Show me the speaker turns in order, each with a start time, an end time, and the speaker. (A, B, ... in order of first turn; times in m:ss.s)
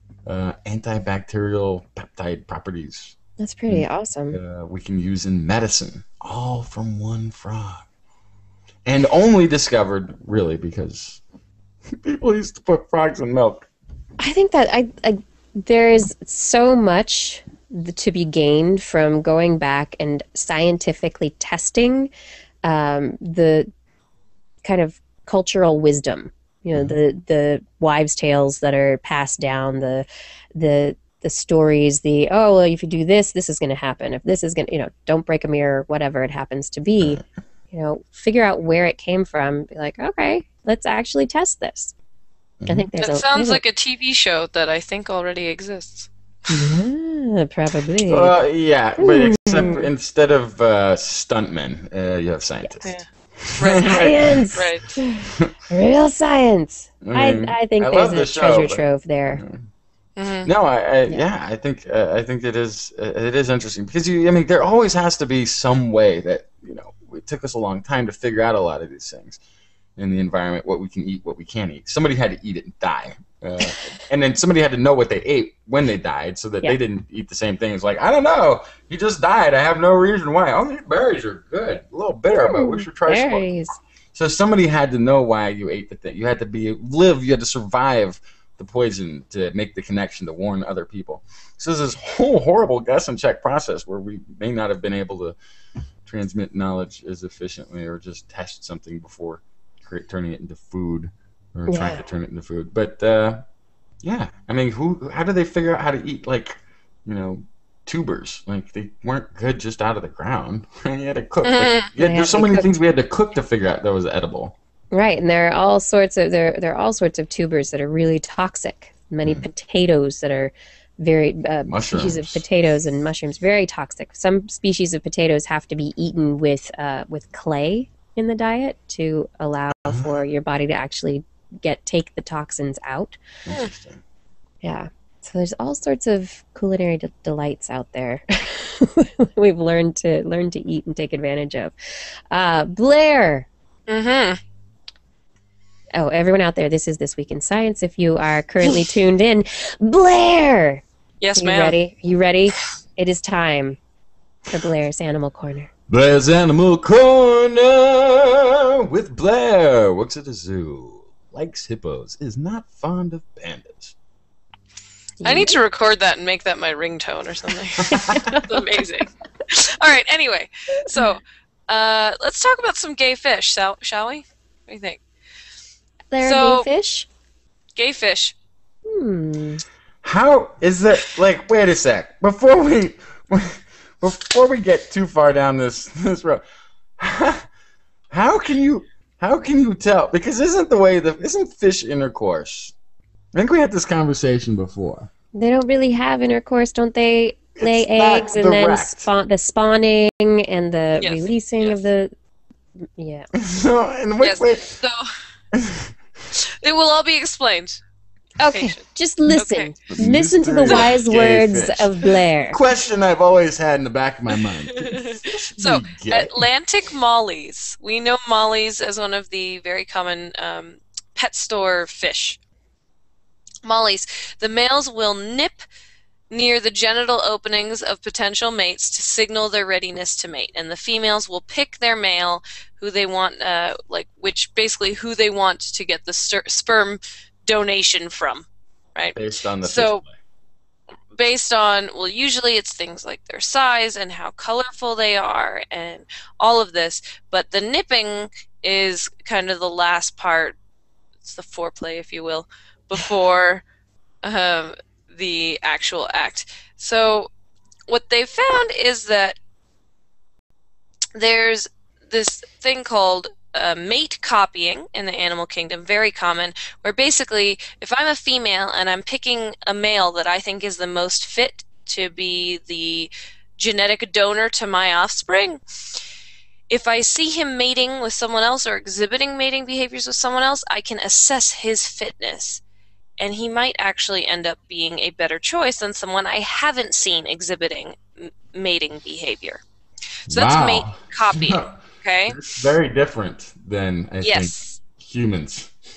0:00.2-0:03.2 A
0:03.4-0:04.4 B
0:03.7-0:07.8 A
0:08.8-0:11.2 A
0:11.9-0:13.7 A
0:14.2-0:22.1 B
0:22.6-0:23.7 B
0:24.6-0:41.9 B
0:42.7-0:43.6 B
0:43.0-0:46.1 C
0:46.5-0:48.4 B
0:48.1-0:54.4 A
0:49.0-0:49.9 B
0:53.6-0:54.9 C
0:53.8-0:59.4 B
0:57.0-0:59.6 A
1:00.2-1:00.5 C
1:00.4-1:09.4 A
1:10.0-1:23.5 A
1:22.4-1:23.8 B
1:24.1-1:35.4 A
1:36.0-1:43.4 A
1:41.7-1:42.0 B
1:44.0-1:54.5 A
1:51.4-1:51.9 C
1:52.0-1:52.6 B
1:54.9-2:13.2 B
2:01.7-2:02.4 A
2:13.5-2:14.0 A
2:14.6-2:21.7 B
2:22.3-2:23.5 B
2:23.9-2:24.4 C
2:25.9-2:30.8 B
2:31.2-2:31.8 C
2:31.4-2:33.8 B
2:34.5-2:35.7 B
2:35.9-2:43.9 A
2:45.2-2:45.6 B
2:45.2-2:55.0 C
2:47.8-2:48.4 A
2:48.0-2:48.6 B
2:56.1-2:57.1 B
2:56.2-2:56.7 C
2:57.8-2:58.3 C
2:58.8-2:59.6 B
3:00.0-3:06.4 A
3:07.0-3:07.5 A
3:08.1-3:12.7 A
3:13.3-3:15.1 A
3:15.3-3:22.1 B
3:17.6-3:19.1 A
3:21.0-3:21.8 C
3:23.0-3:23.3 B
3:23.3-3:24.7 A
3:24.2-3:25.1 C
3:25.5-3:25.9 A
3:26.3-3:27.8 C
3:28.4-3:32.6 B
3:28.4-3:29.7 C
3:29.9-3:31.9 A
3:32.5-3:36.4 A
3:34.7-3:42.4 C
3:43.6-3:45.6 C
3:46.3-4:00.0 C
3:59.1-4:00.1 A
4:01.1-4:10.6 C
4:11.2-4:13.6 C
4:14.2-4:17.3 C
4:17.9-4:19.4 C
4:21.1-4:35.6 C
4:36.7-4:42.6 C
4:43.2-4:49.6 C
4:50.3-4:51.7 A
4:50.3-4:52.4 C
4:52.3-4:55.7 A
4:54.2-4:54.8 C